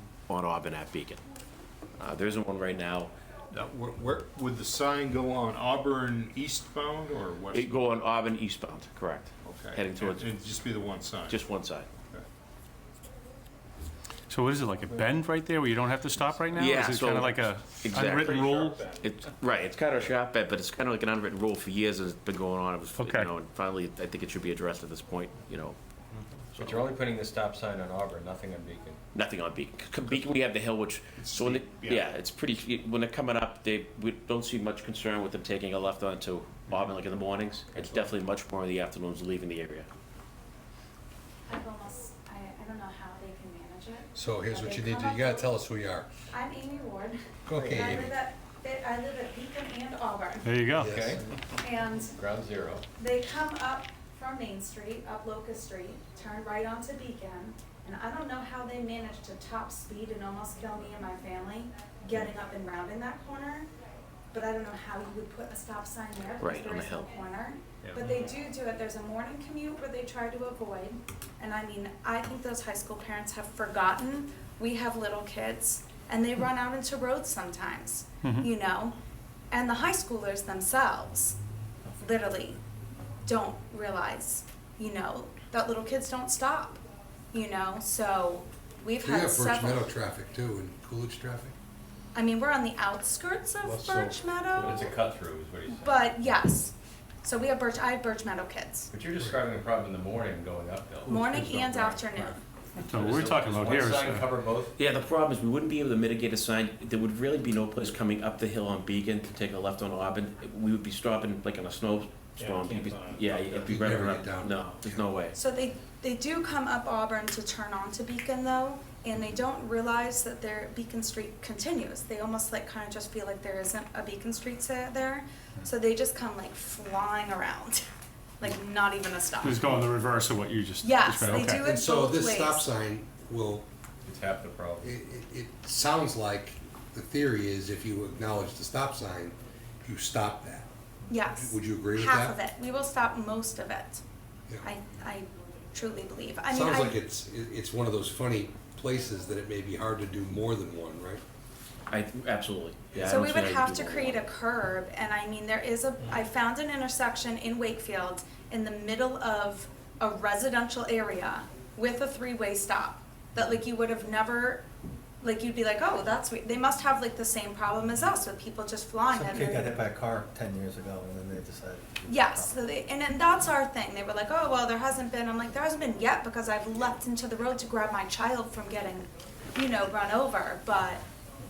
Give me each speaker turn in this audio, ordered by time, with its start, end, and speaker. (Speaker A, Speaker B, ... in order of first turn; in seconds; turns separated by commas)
Speaker A: 0.3-1.2, Speaker A: 2.0-3.1, Speaker B: 3.5-7.9, Speaker A: 7.5-10.5, Speaker B: 9.4-11.4, Speaker A: 11.3-11.9, Speaker C: 14.3-18.9, Speaker A: 16.5-25.8, Speaker B: 18.2-19.1, Speaker C: 22.9-23.3, Speaker D: 26.5-29.0, Speaker A: 29.1-39.9, Speaker B: 31.2-32.1, Speaker E: 41.5-45.6, Speaker F: 44.2-46.2, Speaker E: 46.3-47.2, Speaker F: 47.5-48.1, Speaker D: 47.5-47.8, Speaker E: 47.7-50.8, Speaker C: 50.5-50.9, Speaker F: 50.8-51.2, Speaker D: 50.8-51.5, Speaker E: 51.6-52.1, Speaker D: 52.0-52.9, Speaker E: 53.0-63.7, Speaker E: 64.3-79.0, Speaker A: 66.4-67.1, Speaker E: 79.5-81.4, Speaker E: 82.0-82.6, Speaker E: 83.3-86.8, Speaker E: 87.3-89.9, Speaker F: 89.0-91.5, Speaker E: 92.2-95.0, Speaker B: 93.7-94.1, Speaker D: 94.6-96.4, Speaker E: 95.7-96.7, Speaker E: 97.2-98.9, Speaker D: 98.9-102.3, Speaker E: 101.1-102.4, Speaker C: 102.8-104.3, Speaker D: 102.8-104.7, Speaker A: 104.8-115.4, Speaker B: 112.4-113.7, Speaker F: 113.3-115.0, Speaker E: 115.3-127.9, Speaker E: 128.4-129.7, Speaker C: 129.4-131.7, Speaker E: 130.8-132.7, Speaker F: 131.6-133.7, Speaker D: 134.1-134.9, Speaker F: 134.8-140.7, Speaker E: 141.1-144.0, Speaker F: 141.5-142.3, Speaker E: 144.6-147.0, Speaker F: 146.5-151.2, Speaker A: 151.9-154.2, Speaker E: 153.1-164.7, Speaker E: 165.2-169.8, Speaker G: 169.1-172.5, Speaker E: 172.1-181.1